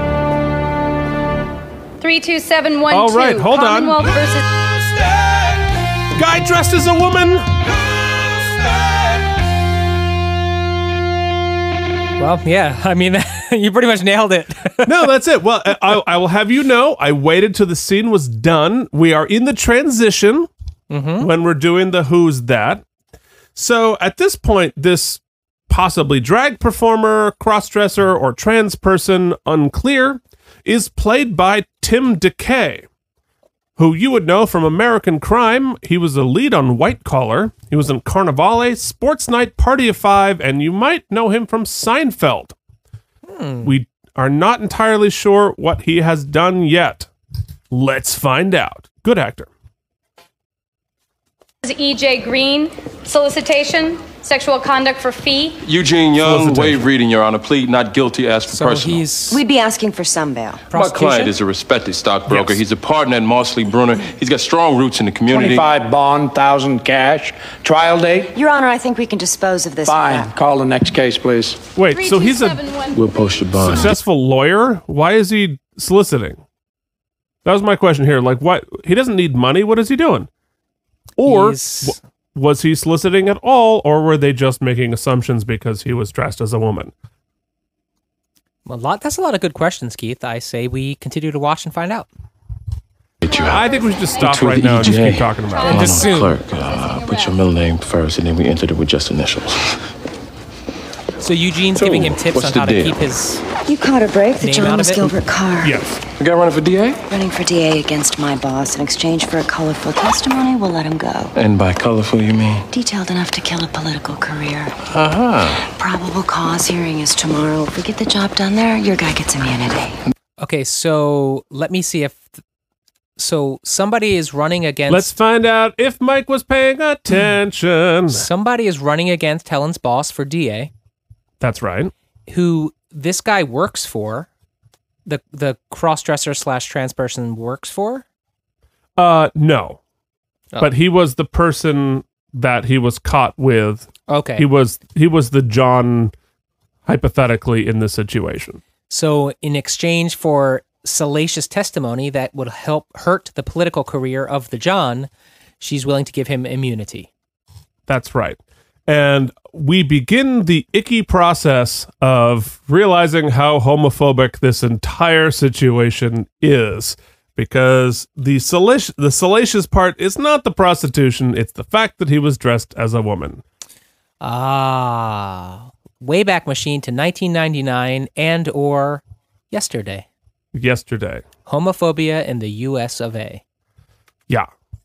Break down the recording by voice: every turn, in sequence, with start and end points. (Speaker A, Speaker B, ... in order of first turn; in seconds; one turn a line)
Speaker A: 2.0-4.5
Speaker B: 2.9-4.2
Speaker B: 4.8-5.5
Speaker B: 6.1-7.6
Speaker B: 8.2-9.0
Speaker C: 12.2-15.1
Speaker B: 14.8-20.5
Speaker C: 20.9-21.3
Speaker B: 21.2-22.8
Speaker B: 23.6-32.9
Speaker B: 33.8-42.5
Speaker C: 43.3-43.7
Speaker B: 43.6-47.1
Speaker B: 47.7-49.5
Speaker A: 51.6-55.6
Speaker D: 55.6-59.1
Speaker B: 56.2-56.8
Speaker C: 58.5-59.4
Speaker E: 59.3-60.6
Speaker C: 60.7-61.3
Speaker D: 60.7-65.7
Speaker B: 62.3-62.5
Speaker F: 65.3-68.3
Speaker E: 68.3-70.3
Speaker F: 69.9-71.6
Speaker B: 71.7-72.6
Speaker A: 71.9-73.1
Speaker D: 72.9-73.9
Speaker B: 73.6-76.4
Speaker A: 73.6-73.9
Speaker B: 77.5-80.3
Speaker B: 81.2-86.9
Speaker C: 81.2-82.0
Speaker C: 88.7-92.1
Speaker D: 93.2-93.6
Speaker A: 93.2-94.5
Speaker B: 93.4-96.0
Speaker D: 94.2-99.8
Speaker A: 95.4-97.4
Speaker C: 95.7-96.3
Speaker C: 101.2-103.4
Speaker D: 101.8-103.0
Speaker E: 103.7-105.7
Speaker C: 104.4-105.1
Speaker B: 105.6-106.0
Speaker D: 106.2-107.0
Speaker E: 107.1-111.3
Speaker D: 111.3-112.7
Speaker E: 112.7-114.7
Speaker D: 114.9-115.7
Speaker E: 115.7-120.0
Speaker C: 120.4-122.3
Speaker C: 123.2-125.2
Speaker B: 124.9-128.3
Speaker C: 128.1-130.7
Speaker B: 131.4-131.9
Speaker C: 132.3-134.3
Speaker C: 135.1-138.1
Speaker B: 139.0-139.8
Speaker B: 140.6-146.1
Speaker C: 144.1-144.5
Speaker B: 146.9-148.6
Speaker C: 148.9-155.1
Speaker C: 155.6-157.1
Speaker B: 157.9-173.4
Speaker C: 174.2-180.1
Speaker B: 180.5-181.3
Speaker C: 181.5-183.4